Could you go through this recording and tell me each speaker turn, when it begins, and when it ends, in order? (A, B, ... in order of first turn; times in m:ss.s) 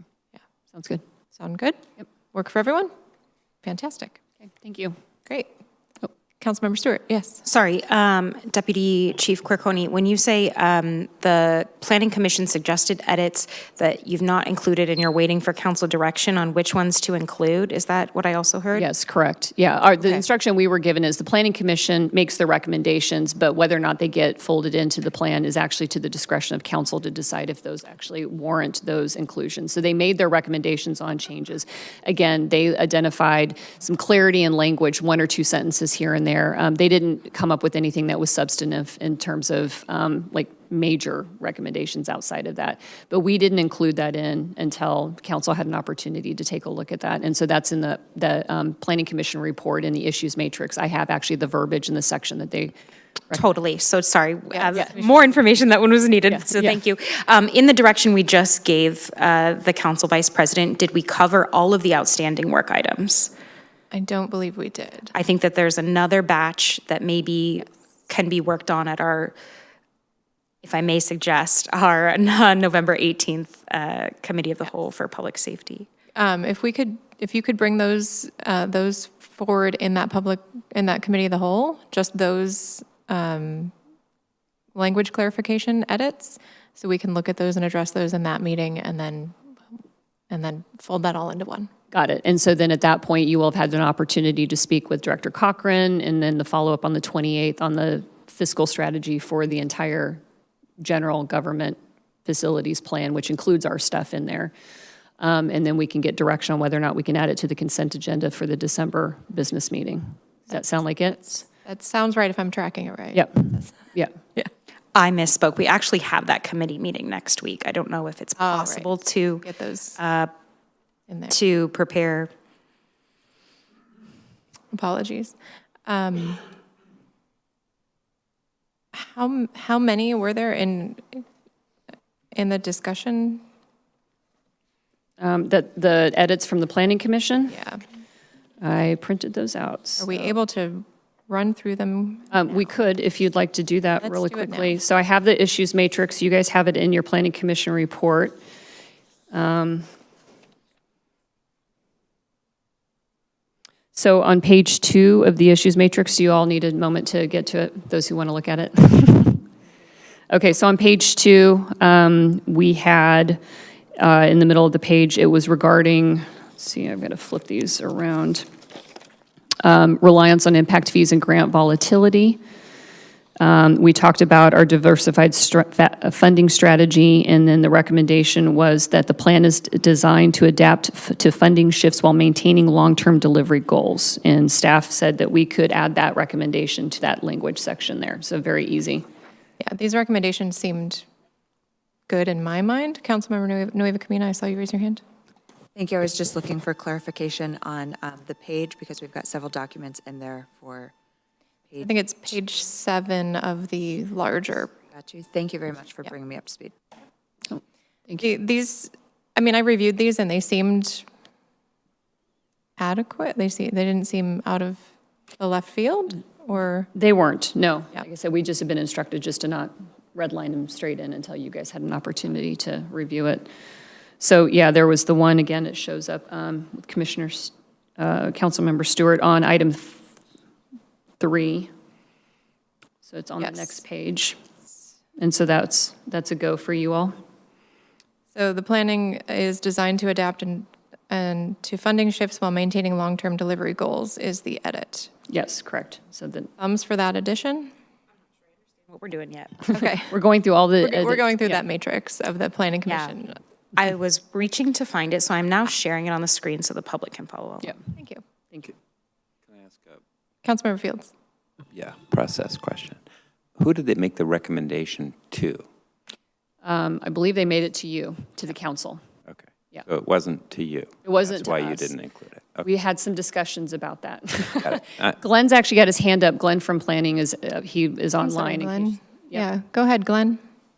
0:00.7-0:01.0 A
0:01.3-0:01.8 B
0:02.3-0:02.9 B
0:03.6-0:04.2 B
0:04.6-0:05.0 A
0:06.4-0:07.4 B
0:07.4-0:18.9 C
0:18.7-0:52.7 A
0:53.3-1:03.3 C
0:54.6-0:55.1 B
0:56.3-0:56.8 A
1:03.9-1:05.1 B
1:05.1-1:09.4 C
1:10.6-1:15.9 C
1:16.2-1:23.7 B
1:24.8-1:29.4 B
1:30.3-1:31.7 B
1:31.9-1:40.2 A
1:40.8-1:44.5 A
1:45.2-1:51.4 A
1:51.2-1:54.5 B
1:53.1-1:54.1 A
1:55.0-2:00.3 C
1:58.4-2:00.0 B
2:01.1-2:01.4 B
2:01.3-2:02.3 C
2:04.7-2:06.4 B
2:09.0-2:11.2 B
2:12.3-2:13.4 B
2:15.2-2:17.6 A
2:17.5-2:17.8 B
2:18.6-2:20.4 A
2:20.0-2:22.6 B
2:22.3-2:28.4 A
2:24.0-2:24.8 B
2:29.3-2:29.9 A
2:33.9-2:39.4 A
2:40.3-2:43.4 A
2:44.0-2:48.4 A
2:49.6-2:52.4 A
2:53.4-3:09.0 A
3:09.6-3:11.0 B
3:12.1-3:15.0 B
3:15.8-3:20.9 D
3:21.8-3:24.7 B
3:24.9-3:26.8 D
3:27.5-3:28.2 A
3:28.2-3:31.1 B
3:32.8-3:34.8 B
3:35.4-3:36.9 B
3:37.0-3:43.5 A
3:44.2-3:50.0 A
3:51.2-3:51.7 A
3:53.0-3:54.4 A
3:53.4-3:53.8 B
3:55.2-3:57.1 A
3:58.3-4:05.1 B
4:05.3-4:06.5 A
4:06.6-4:07.7 B
4:08.9-4:09.6 C
4:09.6-4:11.6 A
4:09.7-4:10.1 B
4:10.8-4:13.4 B
4:12.9-4:13.1 C
4:13.8-4:17.7 C
4:17.9-4:18.2 B
4:19.5-4:20.0 E
4:20.4-4:21.1 B
4:21.7-4:23.0 E
4:23.6-4:25.6 E
4:26.6-4:29.0 A
4:29.3-4:32.7 E
4:31.0-4:31.9 A
4:32.6-4:39.5 A
4:34.7-4:35.1 E
4:38.2-4:40.4 B